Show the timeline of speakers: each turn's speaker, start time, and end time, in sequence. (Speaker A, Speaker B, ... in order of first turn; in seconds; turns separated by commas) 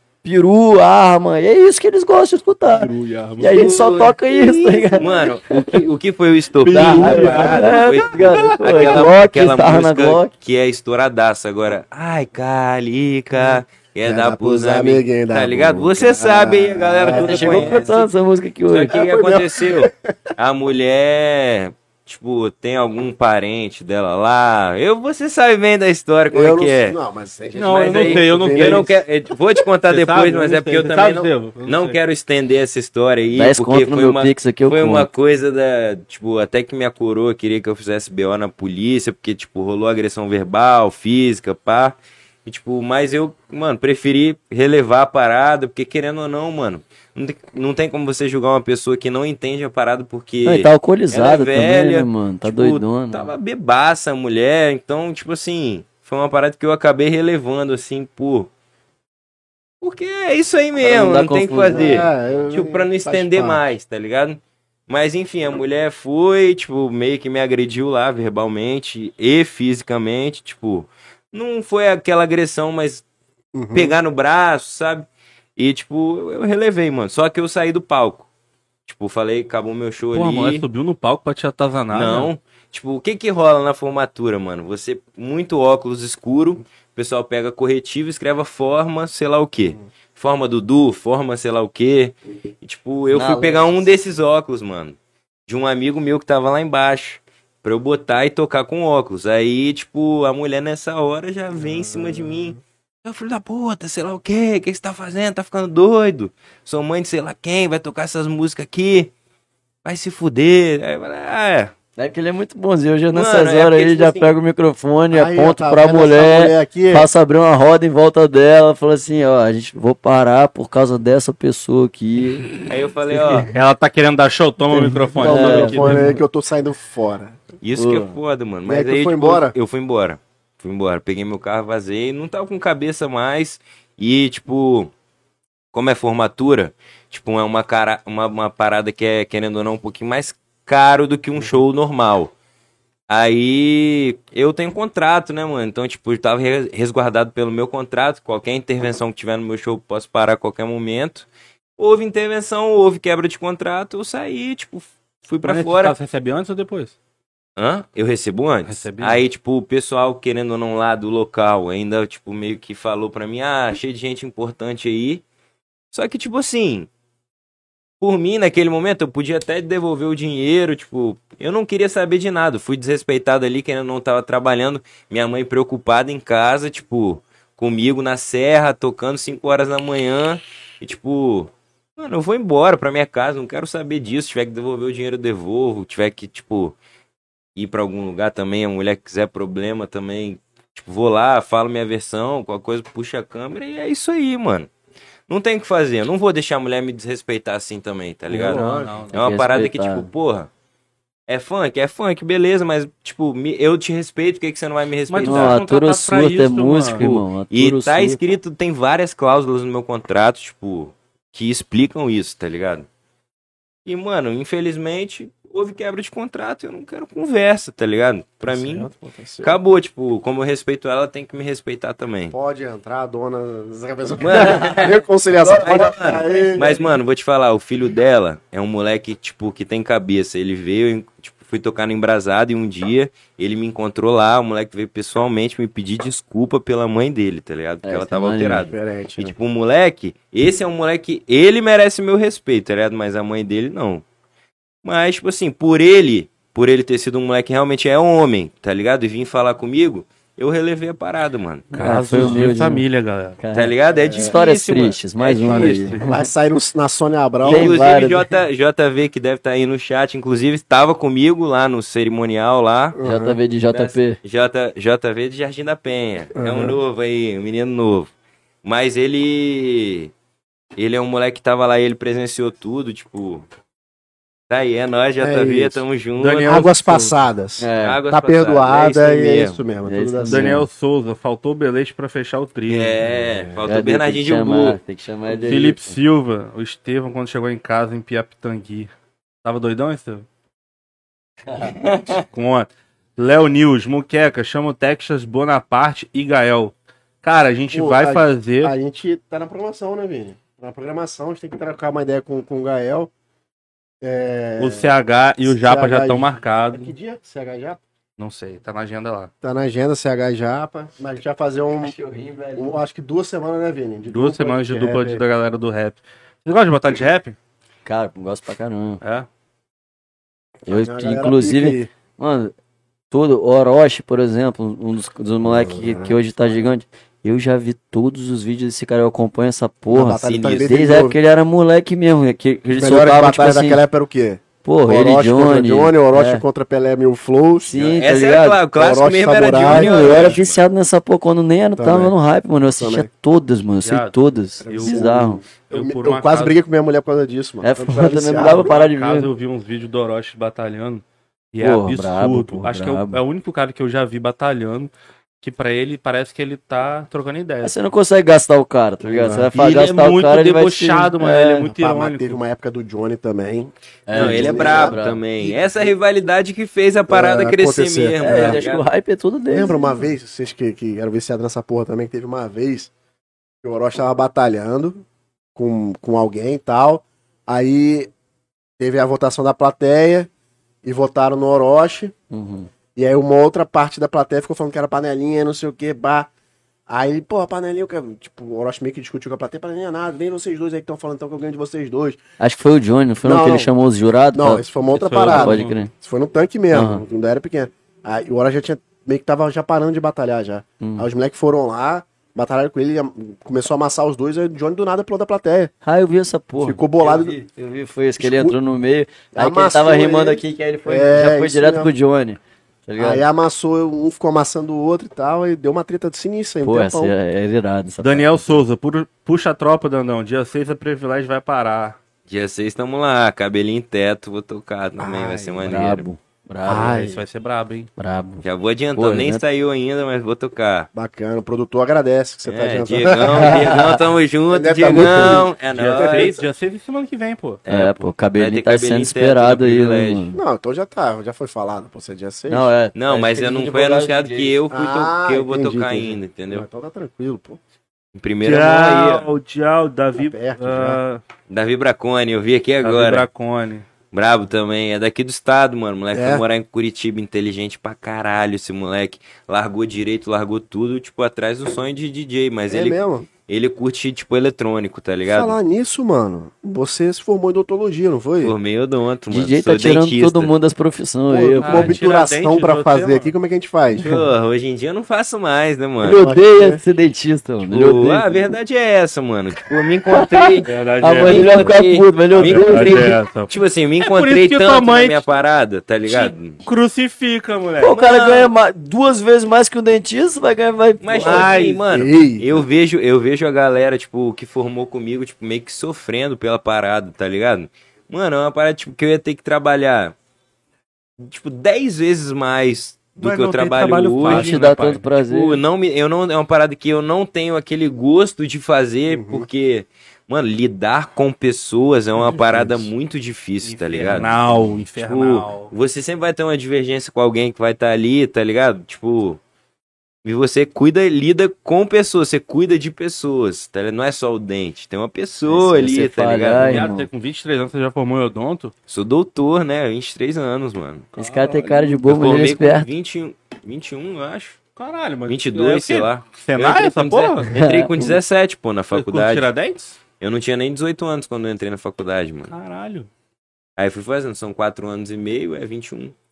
Speaker A: 0.2-5.6, Speaker B: 2.6-4.1, Speaker C: 3.4-18.1, Speaker A: 6.7-10.3, Speaker B: 6.7-8.9, Speaker D: 6.7-7.8, Speaker B: 13.4-17.9, Speaker A: 17.1-19.0, Speaker C: 18.7-27.0, Speaker B: 18.9-20.1, Speaker B: 26.3-29.0, Speaker D: 27.6-29.0, Speaker C: 27.6-58.5, Speaker D: 29.9-32.0, Speaker A: 33.4-35.1, Speaker A: 50.4-53.3, Speaker C: 59.8-73.0, Speaker A: 60.8-62.1, Speaker B: 61.7-63.6, Speaker B: 73.5-74.0, Speaker C: 73.7-78.3, Speaker C: 78.9-80.7, Speaker D: 80.1-82.3, Speaker C: 81.9-109.1, Speaker A: 93.1-93.7, Speaker B: 101.6-102.6, Speaker C: 109.8-111.7, Speaker A: 112.0-122.5, Speaker C: 113.1-114.3, Speaker B: 115.1-117.1, Speaker C: 122.7-123.5, Speaker D: 123.5-126.2, Speaker B: 124.7-127.4, Speaker A: 125.2-126.2, Speaker C: 127.6-134.9, Speaker A: 127.8-128.2, Speaker B: 128.7-129.6, Speaker C: 135.7-142.3, Speaker C: 143.1-155.9, Speaker D: 155.4-156.9, Speaker C: 157.6-165.2, Speaker D: 158.7-159.2, Speaker C: 165.9-166.9, Speaker C: 168.0-186.8, Speaker C: 187.6-194.7, Speaker C: 195.3-200.5, Speaker D: 198.3-199.2, Speaker B: 198.3-199.0, Speaker A: 199.1-200.1, Speaker C: 201.3-205.6, Speaker D: 205.1-207.2, Speaker A: 205.2-208.2, Speaker C: 207.5-212.9, Speaker C: 213.8-218.9, Speaker B: 218.4-219.6, Speaker C: 219.4-222.3, Speaker B: 222.3-226.8, Speaker C: 224.2-244.0, Speaker A: 224.3-224.8, Speaker A: 225.4-226.8, Speaker A: 237.8-238.7, Speaker B: 238.7-239.4, Speaker C: 244.8-251.8, Speaker D: 251.7-253.4, Speaker A: 251.7-252.8, Speaker A: 253.4-256.3, Speaker C: 253.5-256.0, Speaker B: 254.0-254.3, Speaker D: 255.5-256.1, Speaker B: 255.5-257.8, Speaker C: 257.4-263.0, Speaker A: 257.4-258.3, Speaker B: 262.9-263.4, Speaker A: 263.0-264.2, Speaker C: 263.7-268.1, Speaker B: 266.4-266.8, Speaker C: 268.6-270.1, Speaker C: 270.8-273.5, Speaker C: 274.5-276.6, Speaker B: 275.2-275.8, Speaker D: 276.2-277.2, Speaker B: 276.4-280.5, Speaker A: 277.6-278.0, Speaker C: 277.8-279.6, Speaker A: 279.9-280.7, Speaker D: 280.3-283.1, Speaker C: 282.7-284.8, Speaker B: 283.1-283.6, Speaker A: 283.6-285.9, Speaker D: 285.3-288.9, Speaker D: 289.4-290.3, Speaker C: 291.6-292.2, Speaker D: 292.2-298.7, Speaker B: 297.7-303.1, Speaker B: 304.0-304.9, Speaker D: 304.6-306.9, Speaker B: 305.4-307.8, Speaker D: 308.2-309.3, Speaker B: 309.4-311.9, Speaker A: 311.8-312.8, Speaker B: 312.6-315.2, Speaker D: 314.1-317.4, Speaker A: 317.9-319.0, Speaker D: 319.0-319.3, Speaker B: 320.7-321.9, Speaker A: 320.7-322.5, Speaker A: 323.1-333.8, Speaker B: 325.4-326.2, Speaker B: 329.9-331.2, Speaker C: 330.2-330.7, Speaker B: 332.7-337.8, Speaker A: 334.6-336.4, Speaker A: 337.6-338.6, Speaker C: 337.8-340.6, Speaker B: 338.8-340.4, Speaker A: 339.7-345.4, Speaker D: 339.8-340.3, Speaker B: 341.8-342.1, Speaker B: 342.8-343.1, Speaker D: 343.9-346.6, Speaker B: 344.6-348.7, Speaker A: 347.6-349.3, Speaker D: 348.4-357.7, Speaker A: 351.6-353.2, Speaker A: 357.6-361.7, Speaker B: 359.0-359.5, Speaker D: 359.5-362.4, Speaker B: 361.7-365.9, Speaker A: 364.1-365.2, Speaker C: 364.1-368.9, Speaker B: 367.1-368.6, Speaker A: 368.2-370.1, Speaker B: 369.5-372.9, Speaker B: 373.6-378.1, Speaker B: 378.8-380.3, Speaker B: 380.8-382.1, Speaker A: 382.3-382.7, Speaker B: 382.9-386.3, Speaker B: 386.9-392.2, Speaker A: 392.4-395.9, Speaker B: 393.2-393.7, Speaker B: 394.3-405.7, Speaker D: 394.9-395.8, Speaker A: 396.7-397.0, Speaker A: 400.8-401.1, Speaker A: 405.8-413.2, Speaker B: 406.6-407.4, Speaker B: 408.2-408.6, Speaker B: 409.3-411.9, Speaker B: 413.0-417.1, Speaker A: 416.6-418.6, Speaker D: 418.0-422.0, Speaker C: 422.3-426.1, Speaker B: 425.0-425.7, Speaker A: 425.6-427.1, Speaker B: 426.6-427.2, Speaker D: 426.8-427.9, Speaker A: 428.0-429.4, Speaker C: 428.4-430.9, Speaker B: 430.9-433.9, Speaker C: 432.5-436.3, Speaker A: 433.2-434.0, Speaker B: 434.5-436.4, Speaker D: 435.7-437.6, Speaker C: 437.7-440.3, Speaker A: 437.7-440.4, Speaker B: 440.3-442.7, Speaker A: 442.5-444.6, Speaker C: 442.9-446.7, Speaker B: 444.7-447.6, Speaker C: 448.1-449.3, Speaker D: 448.4-451.2, Speaker B: 450.2-451.0, Speaker C: 451.5-453.3, Speaker D: 452.8-453.9, Speaker C: 454.1-465.5, Speaker B: 456.1-456.4, Speaker B: 462.7-463.3, Speaker B: 465.3-468.6, Speaker C: 468.4-470.5, Speaker A: 469.3-472.0, Speaker B: 471.3-474.1, Speaker D: 471.6-473.3, Speaker C: 474.0-476.2, Speaker A: 476.0-478.4, Speaker B: 476.2-476.8, Speaker C: 477.7-486.6, Speaker A: 480.1-483.2, Speaker D: 480.6-481.7, Speaker D: 482.4-485.2, Speaker D: 486.1-487.9, Speaker A: 487.8-491.5, Speaker C: 487.9-488.5, Speaker C: 491.0-500.1, Speaker D: 491.1-491.8, Speaker B: 491.8-492.7, Speaker C: 501.2-519.4, Speaker D: 503.2-505.0, Speaker A: 504.3-505.6, Speaker B: 509.1-509.5, Speaker B: 512.2-512.9, Speaker D: 513.6-515.7, Speaker C: 520.2-526.9, Speaker A: 525.5-527.1, Speaker D: 526.6-528.7, Speaker C: 528.9-531.1, Speaker D: 531.2-532.0, Speaker A: 531.2-532.9, Speaker C: 532.0-534.6, Speaker D: 534.8-537.5, Speaker C: 535.3-539.5, Speaker A: 537.5-537.9, Speaker D: 538.9-540.0, Speaker C: 540.2-542.5, Speaker D: 542.5-543.1, Speaker C: 543.8-546.2